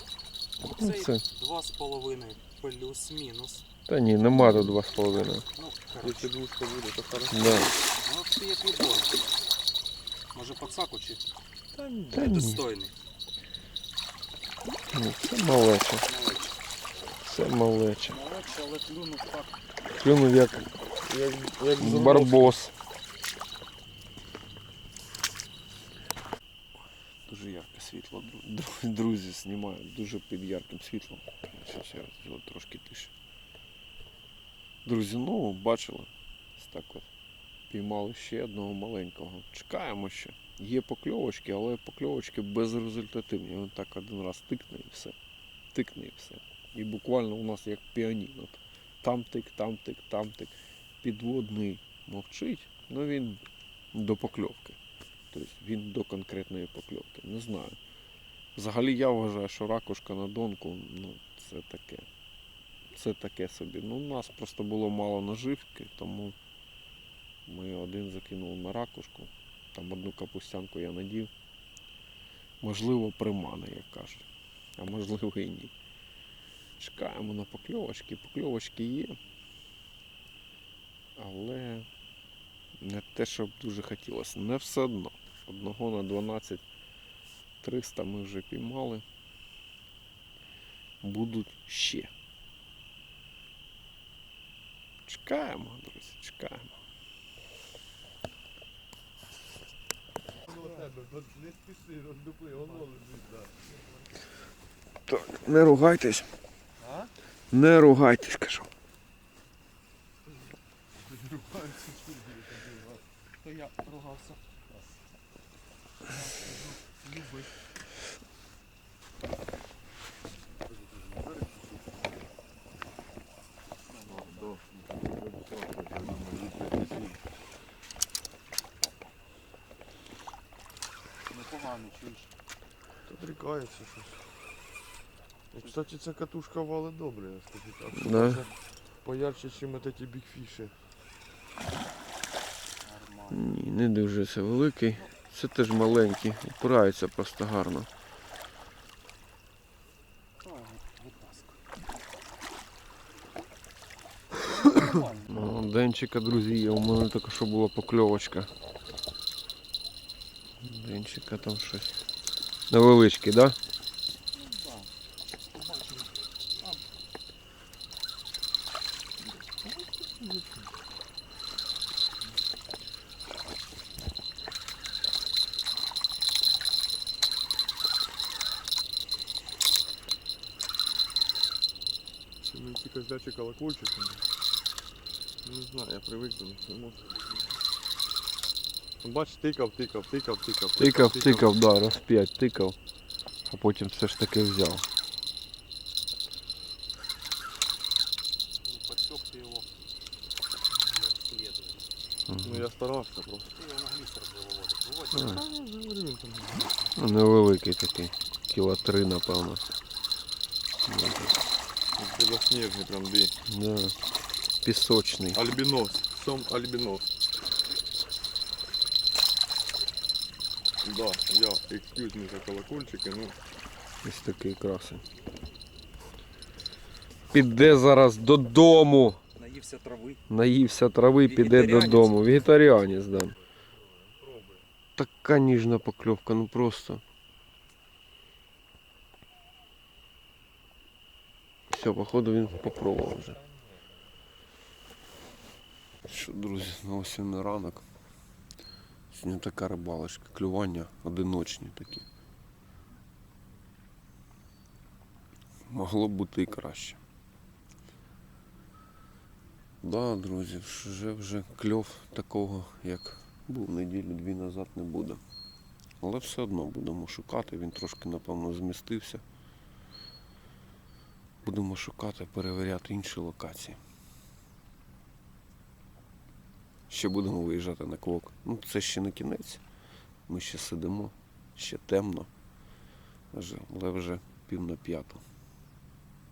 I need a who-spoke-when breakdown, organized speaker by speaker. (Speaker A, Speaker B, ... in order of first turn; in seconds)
Speaker A: 0.6-3.6, 4.5-6.3, 8.0-9.3, 10.3-11.2, 12.1-12.9, 16.0-16.6, 18.1-19.6, 113.4-114.4, 116.1-116.7, 123.9-124.6, 131.3-132.3, 135.6-135.9, 142.8-143.5, 150.4-151.6, 154.5-155.5, 164.4-164.9, 165.5-166.1, 198.6-199.7, 200.8-201.9, 203.6-205.4, 229.4-230.2, 231.2-232.4
Speaker B: 0.7-1.2, 3.9-5.4, 7.3-7.7, 12.1-12.6, 14.9-16.1, 17.2-18.2, 20.0-20.7, 21.8-22.7, 27.3-33.1, 34.9-37.1, 37.7-45.1, 45.7-53.4, 53.9-54.8, 55.3-57.8, 58.6-62.1, 62.9-66.3, 67.5-71.3, 72.6-74.2, 74.8-75.7, 76.8-79.2, 81.2-81.9, 82.8-86.6, 87.6-89.0, 91.0-92.1, 95.1-96.7, 105.1-106.3, 107.5-108.7, 137.9-138.4, 143.3-147.9, 155.3-158.5, 160.6-161.9, 162.7-163.6, 190.8-192.8, 193.5-194.8, 202.3-202.6, 205.1-205.4, 207.0-209.6, 210.9-211.4, 213.5-213.9, 214.6-215.4, 224.0-225.0, 227.3-229.2, 230.3-233.4, 235.0-237.0, 241.7-243.4, 246.1-247.8, 249.1-252.1, 255.7-257.0, 259.8-265.2, 266.0-269.2, 271.4-273.8, 276.9-279.6, 280.3-282.3, 283.3-285.2
Speaker C: 6.0-7.7, 11.7-12.3, 21.0-22.6, 100.5-103.5, 106.8-107.1, 111.0-113.0, 124.0-127.2, 133.1-134.2, 135.5-140.8, 169.2-170.7, 182.4-184.2, 185.4-187.3, 189.0-191.5, 202.4-203.5, 205.1-206.7, 212.0-213.3, 215.3-217.1, 220.8-223.3, 234.0-234.6